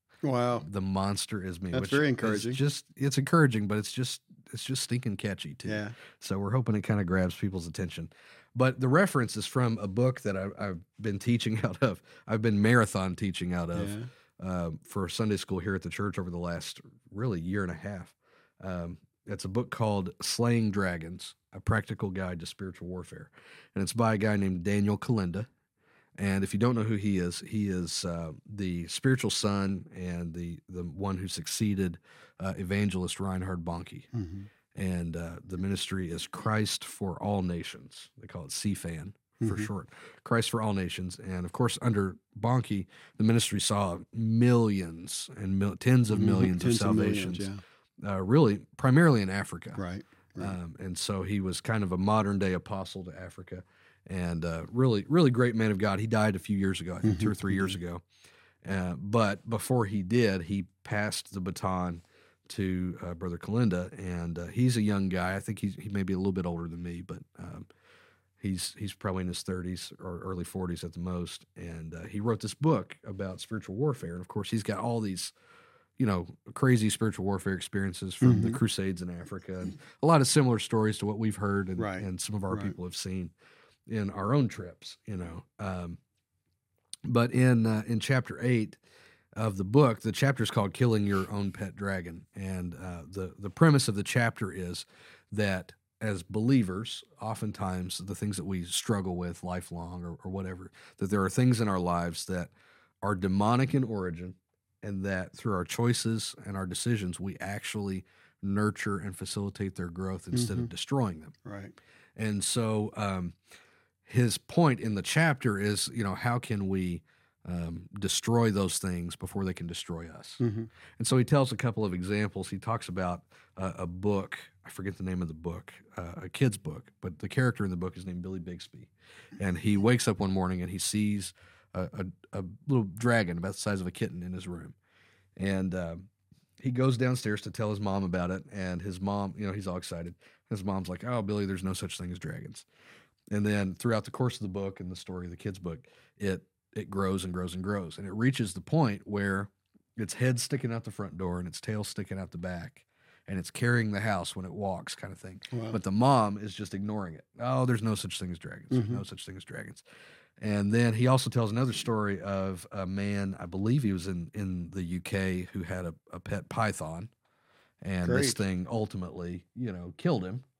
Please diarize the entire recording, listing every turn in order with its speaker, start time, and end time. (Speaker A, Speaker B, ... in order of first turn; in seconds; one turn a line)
Speaker A: 0.2-0.7
Speaker B: 0.6-25.5
Speaker A: 1.7-2.6
Speaker A: 5.6-6.0
Speaker A: 13.7-14.1
Speaker B: 26.2-34.1
Speaker A: 34.1-34.5
Speaker B: 34.7-47.5
Speaker A: 39.4-39.7
Speaker A: 46.1-47.6
Speaker B: 48.0-49.8
Speaker A: 49.8-50.5
Speaker B: 50.4-58.0
Speaker A: 57.0-57.8
Speaker B: 58.6-67.7
Speaker B: 68.4-75.3
Speaker B: 76.0-83.3
Speaker A: 78.2-78.6
Speaker A: 81.8-82.7
Speaker B: 83.9-86.0
Speaker B: 87.0-88.8
Speaker B: 89.3-102.5
Speaker B: 103.0-111.3
Speaker A: 110.3-110.7
Speaker A: 111.4-111.7
Speaker B: 112.2-113.3
Speaker B: 114.0-120.4
Speaker A: 120.4-120.7
Speaker B: 121.0-134.8
Speaker B: 135.3-136.1
Speaker B: 136.6-142.7
Speaker B: 143.3-159.8
Speaker A: 155.5-155.8
Speaker A: 158.7-159.0
Speaker B: 160.4-167.1
Speaker B: 167.8-170.4
Speaker A: 168.0-168.4